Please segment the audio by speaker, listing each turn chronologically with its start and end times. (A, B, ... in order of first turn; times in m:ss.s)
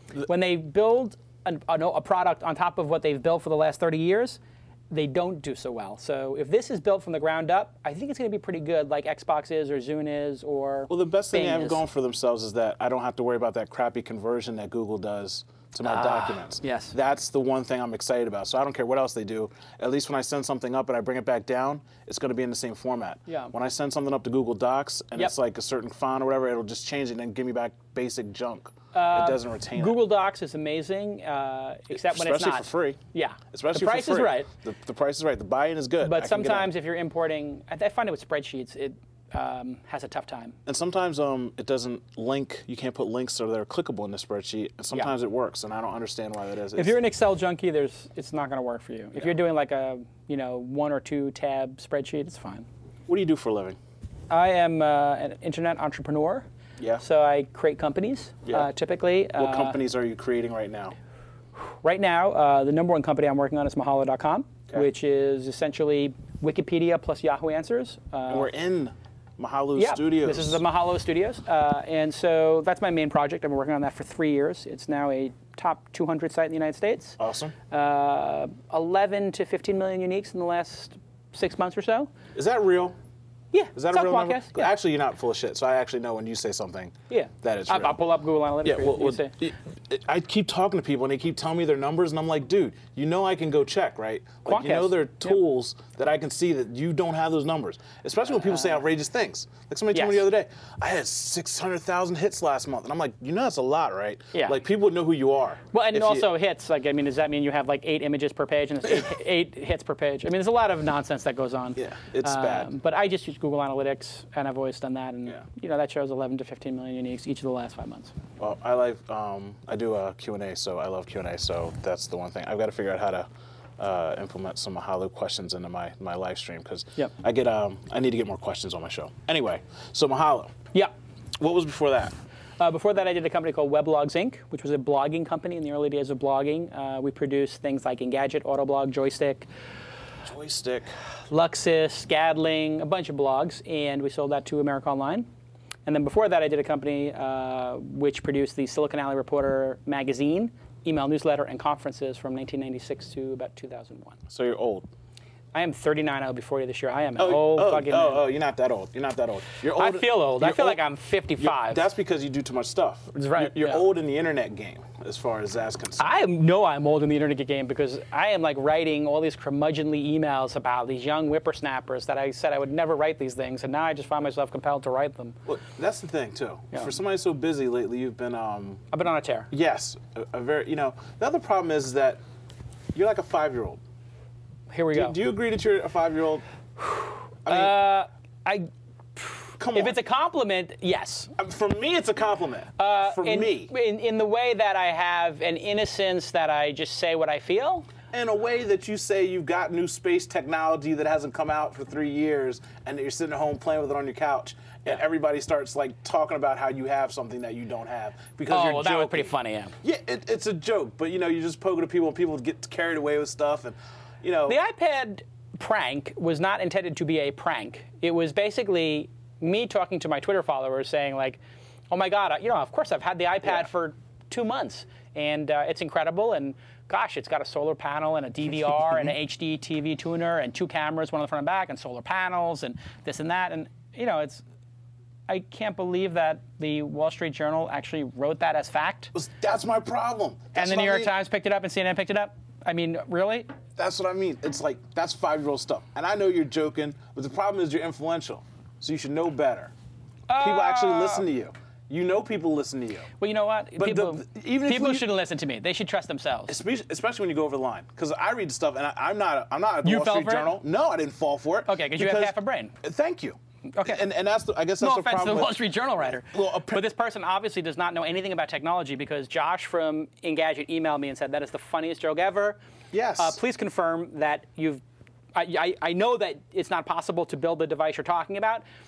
0:00.2-0:11.8 A
0:10.9-0:30.0 B
0:15.8-0:16.9 A
0:23.3-0:23.5 A
0:28.9-0:34.5 A
0:31.9-0:33.0 B
0:33.5-0:36.7 B
0:36.0-0:40.6 A
0:40.6-0:47.0 B
0:46.7-0:52.7 A
0:53.1-0:53.8 B
0:54.3-0:56.5 A
0:56.8-0:57.0 B
0:57.0-0:59.8 A
0:59.4-1:01.0 B
1:01.5-1:08.5 A
1:08.3-1:10.6 B
1:09.8-1:17.2 A
1:17.2-1:17.5 B
1:17.7-1:22.1 A
1:22.3-1:22.9 B
1:23.5-1:24.7 A
1:23.7-1:28.0 B
1:27.1-1:29.3 A
1:28.6-1:46.3 B
1:34.4-1:35.4 A
1:38.3-1:38.8 A
1:39.9-1:40.3 A
1:45.7-1:58.1 A
1:51.8-1:52.7 B
1:58.4-2:03.3 B
2:03.8-2:10.5 B
2:11.4-2:12.1 B
2:12.6-2:19.5 A
2:20.2-2:20.9 B
2:21.3-2:25.3 A
2:25.8-2:34.2 A
2:34.3-2:34.9 B
2:35.5-2:38.2 A
2:37.2-2:40.8 B
2:39.7-2:41.9 A
2:41.4-2:46.2 B
2:43.1-2:43.8 A
2:46.0-2:55.4 A
2:55.4-2:58.8 B
2:58.9-2:59.5 A
2:59.5-3:02.2 B
3:02.9-3:03.8 B
3:04.7-3:05.2 A
3:04.9-3:06.4 B
3:06.8-3:11.3 A
3:07.4-3:07.8 B
3:09.6-3:10.0 B
3:11.4-3:13.7 B
3:12.8-3:17.9 A
3:18.1-3:34.6 B
3:28.5-3:29.8 A
3:34.5-3:54.4 A
3:55.3-3:59.1 A
3:59.1-4:01.1 B
4:00.5-4:03.5 A
4:03.8-4:09.7 B
4:10.3-4:11.2 A
4:10.4-4:13.1 B
4:13.2-4:16.6 A
4:13.8-4:15.0 B
4:16.5-4:26.8 B
4:19.8-4:20.6 A
4:21.6-4:22.7 A
4:23.8-4:24.0 A
4:24.8-4:32.6 A
4:32.9-4:33.4 B
4:33.2-4:34.8 A
4:35.3-4:38.6 A